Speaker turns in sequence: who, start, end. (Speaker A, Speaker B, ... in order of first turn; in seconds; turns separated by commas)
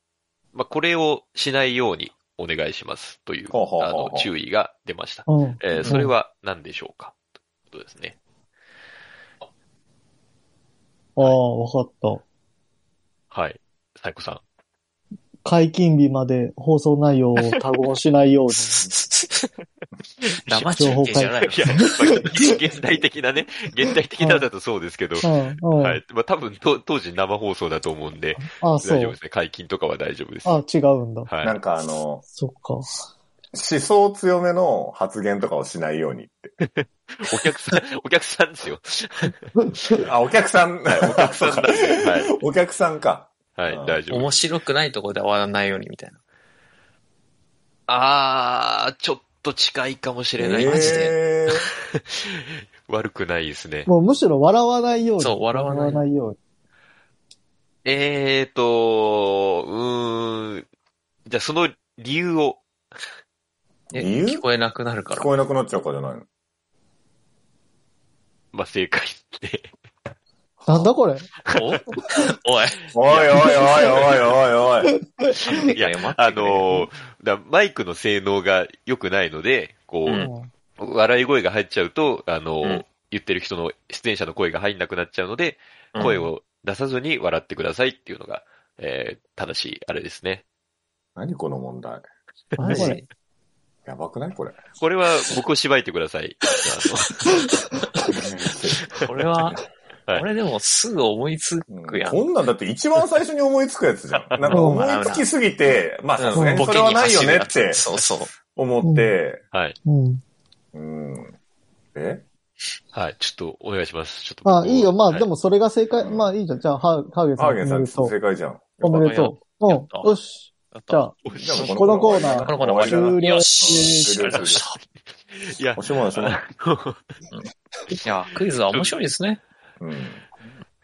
Speaker A: 0.5-7.2, Speaker B: 3.5-4.3, Speaker C: 5.3-6.1, Speaker A: 7.7-8.1, Speaker C: 11.2-12.2, Speaker A: 13.3-14.4, Speaker C: 15.4-18.8, Speaker D: 18.5-19.5, Speaker A: 20.2-30.6, Speaker D: 20.5-21.8, Speaker C: 20.8-22.4, Speaker C: 24.2-24.5, Speaker C: 25.2-26.0, Speaker C: 28.4-29.1, Speaker C: 30.4-31.3, Speaker A: 31.2-31.6, Speaker B: 31.4-32.2, Speaker C: 32.3-32.9, Speaker B: 33.5-36.5, Speaker A: 36.6-39.4, Speaker B: 40.0-44.0, Speaker A: 40.9-42.4, Speaker A: 43.5-44.4, Speaker D: 44.1-46.2, Speaker A: 47.9-53.9, Speaker D: 50.4-51.1, Speaker B: 50.4-51.7, Speaker C: 53.9-56.4, Speaker D: 55.2-56.0, Speaker A: 57.8-60.6, Speaker A: 61.3-62.6, Speaker B: 63.9-64.4, Speaker D: 63.9-65.3, Speaker B: 65.1-66.2, Speaker A: 68.5-69.7, Speaker C: 70.7-71.3, Speaker A: 71.4-71.8, Speaker D: 71.5-74.0, Speaker B: 72.9-74.9, Speaker A: 73.1-73.3, Speaker C: 75.2-75.5, Speaker A: 75.4-90.4, Speaker D: 75.5-76.8, Speaker D: 80.0-80.3, Speaker C: 80.2-80.5, Speaker D: 85.9-86.3, Speaker B: 91.2-92.0, Speaker D: 92.6-93.0, Speaker C: 92.6-93.0, Speaker B: 93.8-94.6, Speaker A: 94.8-97.5, Speaker B: 98.1-98.9, Speaker D: 99.0-99.6, Speaker D: 100.1-102.3, Speaker B: 101.7-109.4, Speaker D: 104.4-105.3, Speaker C: 104.5-104.8, Speaker D: 106.2-108.3, Speaker C: 106.3-106.7, Speaker C: 108.8-109.1, Speaker C: 109.8-110.2, Speaker B: 110.7-111.3, Speaker B: 111.9-112.2, Speaker A: 112.9-115.3, Speaker C: 114.4-118.1, Speaker B: 116.0-116.3, Speaker B: 117.3-119.2, Speaker C: 118.8-124.3, Speaker D: 118.9-120.2, Speaker D: 120.7-121.0, Speaker A: 121.2-121.6, Speaker B: 121.3-124.6, Speaker D: 121.6-124.8, Speaker A: 125.3-127.0, Speaker B: 125.8-126.4, Speaker D: 128.0-129.4, Speaker A: 128.7-129.0, Speaker B: 129.8-130.2